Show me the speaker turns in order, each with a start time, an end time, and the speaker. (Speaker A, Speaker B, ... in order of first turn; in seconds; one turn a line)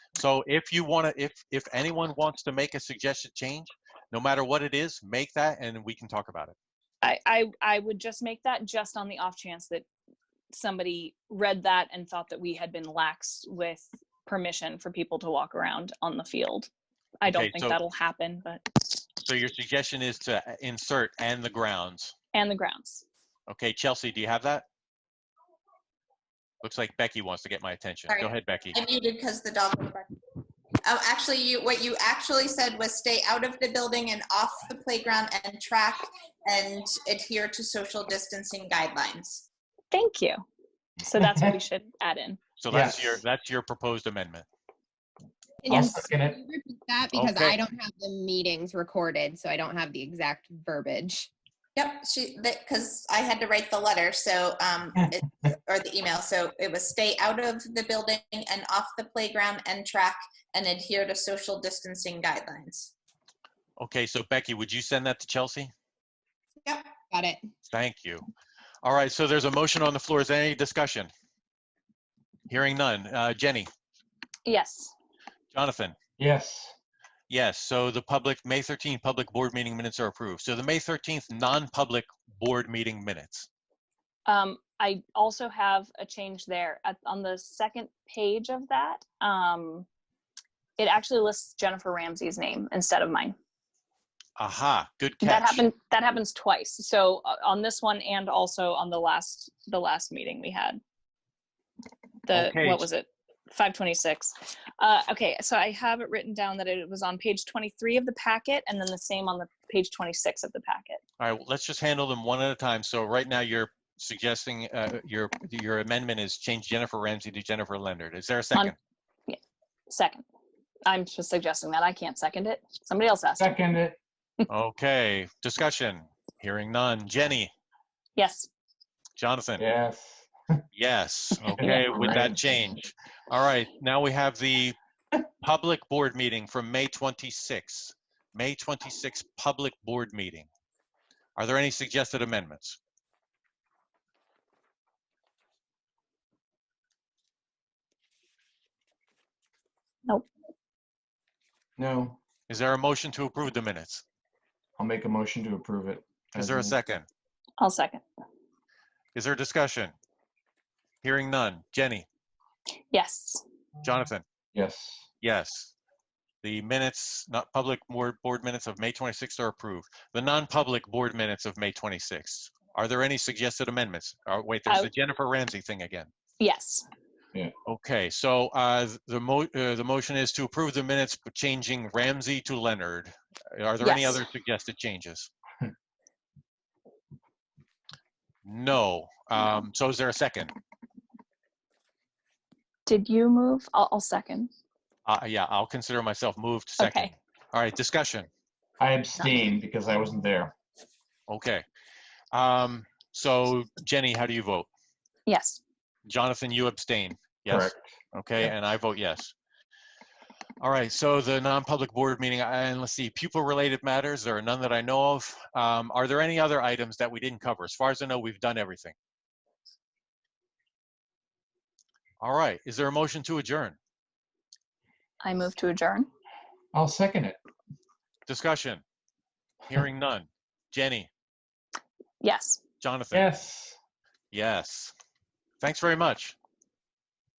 Speaker A: 0.2-6.5
Speaker B: 7.0-9.9
Speaker B: 10.5-16.7
Speaker B: 17.2-18.6
Speaker A: 17.3-17.8
Speaker A: 19.2-22.1
Speaker B: 22.3-23.0
Speaker A: 23.5-24.7
Speaker A: 26.6-28.8
Speaker C: 28.1-30.1
Speaker C: 30.9-39.5
Speaker B: 39.9-40.4
Speaker B: 41.0-42.4
Speaker D: 41.2-41.5
Speaker A: 42.6-44.5
Speaker D: 42.7-43.2
Speaker E: 45.6-51.3
Speaker D: 45.7-46.4
Speaker A: 47.1-47.6
Speaker C: 51.8-62.9
Speaker A: 63.8-65.7
Speaker C: 66.7-67.0
Speaker E: 67.1-67.4
Speaker A: 67.7-68.3
Speaker A: 68.8-71.1
Speaker A: 72.5-73.7
Speaker B: 74.5-74.9
Speaker A: 75.5-76.0
Speaker D: 76.2-76.7
Speaker A: 77.3-83.5
Speaker B: 84.3-89.9
Speaker B: 90.8-93.4
Speaker A: 94.4-95.7
Speaker B: 95.2-100.8
Speaker B: 102.2-111.0
Speaker A: 102.3-102.9
Speaker A: 111.2-118.8
Speaker B: 119.3-120.2
Speaker B: 120.8-123.6
Speaker D: 123.4-124.0
Speaker A: 124.5-127.5
Speaker B: 128.2-128.5
Speaker A: 129.2-129.6
Speaker D: 129.6-130.6
Speaker A: 130.7-134.8
Speaker D: 131.5-132.6
Speaker A: 135.4-140.5
Speaker A: 141.4-142.8
Speaker D: 151.8-152.2
Speaker A: 152.5-154.0
Speaker D: 154.8-156.8
Speaker A: 156.3-157.1
Speaker B: 157.6-158.0
Speaker A: 159.2-159.9
Speaker A: 161.0-162.1
Speaker B: 162.9-163.4
Speaker A: 163.8-164.2
Speaker D: 164.5-165.1
Speaker A: 165.2-165.7
Speaker A: 166.4-176.1
Speaker B: 176.4-176.9
Speaker A: 177.7-185.3
Speaker B: 183.8-184.2
Speaker A: 188.4-190.5
Speaker B: 192.9-194.5
Speaker A: 195.1-198.3
Speaker B: 196.8-197.1
Speaker D: 198.8-200.5
Speaker A: 201.3-201.7
Speaker A: 202.3-204.7
Speaker B: 205.3-205.6
Speaker A: 206.1-209.3
Speaker D: 207.5-207.8
Speaker A: 210.6-218.9
Speaker A: 222.2-223.8
Speaker B: 225.2-226.1
Speaker D: 226.7-227.4
Speaker A: 228.3-228.8
Speaker A: 229.7-231.1
Speaker B: 232.2-232.6
Speaker A: 232.8-233.3
Speaker D: 233.1-233.8
Speaker A: 234.3-234.9
Speaker A: 235.6-236.3